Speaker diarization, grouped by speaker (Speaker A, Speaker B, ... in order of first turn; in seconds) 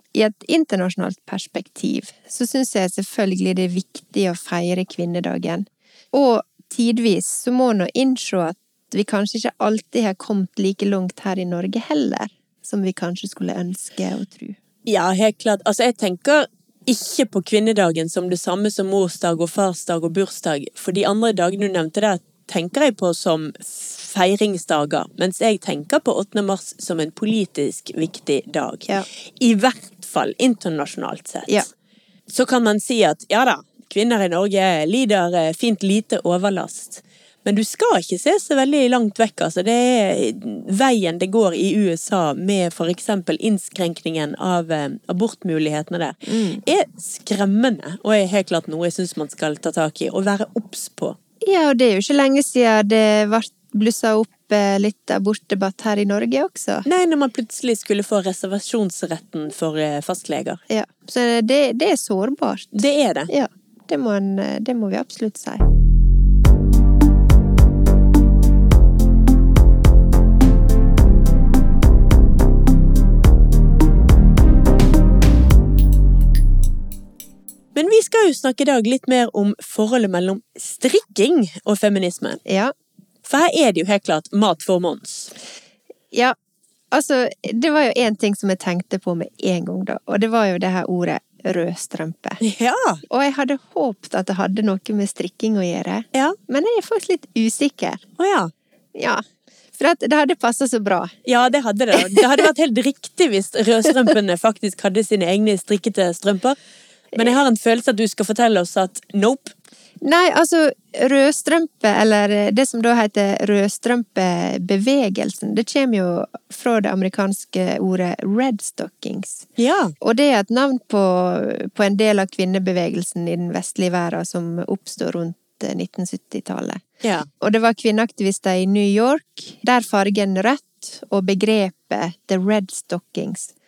Speaker A: 0.1-14.6, 46.3-46.6, 51.4-56.9, 60.7-65.6, 82.5-82.7, 86.9-92.4, 93.1-98.0, 99.0-99.2, 99.8-101.2, 102.0-102.4, 110.0-119.5, 120.0-126.8, 127.4-133.5
Speaker B: 14.9-31.6, 32.3-51.2, 56.9-60.6, 62.7-63.3, 77.8-82.4, 83.2-85.3, 92.4-93.0, 98.2-98.5, 101.2-106.6, 107.1-109.5, 119.6-120.0, 127.0-127.3